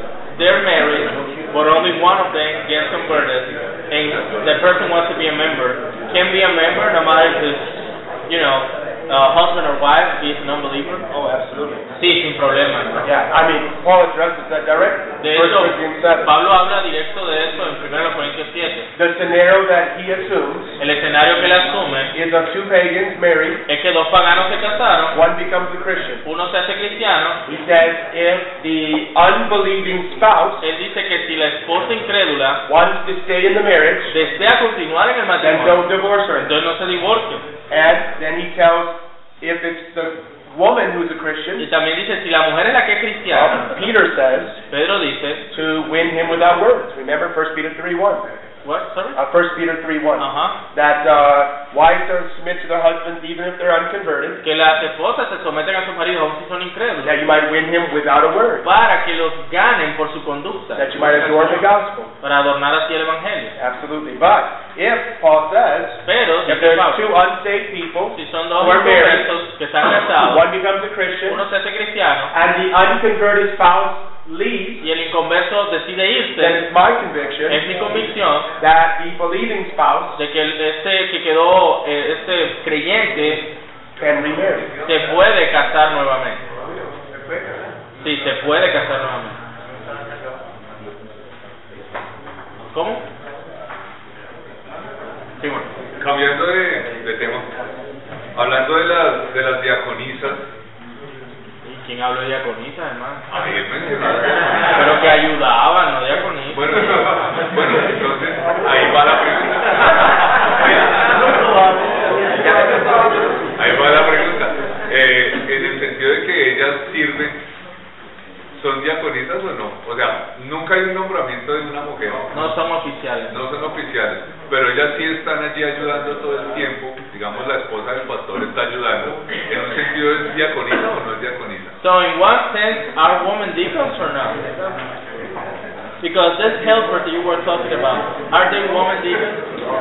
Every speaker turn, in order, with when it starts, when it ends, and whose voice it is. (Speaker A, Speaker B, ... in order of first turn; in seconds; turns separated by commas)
Speaker A: 0.3-11.0, Speaker B: 11.1-11.8, Speaker A: 11.9-13.0, Speaker B: 13.0-16.3, Speaker A: 15.2-18.9, Speaker B: 19.0-20.8, Speaker A: 20.8-22.1, Speaker B: 22.1-23.6, Speaker A: 23.7-25.2, Speaker B: 25.1-26.2, Speaker A: 26.2-27.4, Speaker B: 27.5-30.7, Speaker A: 30.6-32.6, Speaker B: 32.7-34.1, Speaker A: 34.1-35.8, Speaker B: 35.4-36.5, Speaker A: 36.4-37.5, Speaker B: 37.7-41.7, Speaker A: 41.6-43.7, Speaker B: 43.3-44.6, Speaker A: 44.7-45.4, Speaker B: 45.5-48.3, Speaker A: 48.6-49.2, Speaker B: 49.1-54.4, Speaker A: 50.2-50.5, Speaker A: 54.4-57.1, Speaker B: 57.0-58.6, Speaker A: 58.6-61.7, Speaker B: 60.8-62.1, Speaker A: 62.2-63.5, Speaker B: 63.6-69.3, Speaker A: 66.1-67.1, Speaker A: 68.1-70.5, Speaker B: 70.2-71.4, Speaker A: 71.3-72.3, Speaker B: 72.3-74.8, Speaker A: 74.8-76.6, Speaker B: 76.4-77.7, Speaker A: 77.5-78.5, Speaker B: 78.6-80.2, Speaker A: 80.2-83.5, Speaker B: 84.0-84.7, Speaker A: 84.9-86.4, Speaker A: 88.0-89.4, Speaker A: 92.7-93.0, Speaker A: 95.4-95.7, Speaker C: 96.0-97.5, Speaker C: 98.3-100.5, Speaker A: 101.6-103.2, Speaker C: 103.3-104.9, Speaker A: 104.8-106.6, Speaker C: 106.5-111.3, Speaker C: 112.3-117.4, Speaker C: 118.5-122.3, Speaker A: 122.3-123.3, Speaker C: 123.3-131.8, Speaker A: 131.8-134.4, Speaker A: 136.0-139.4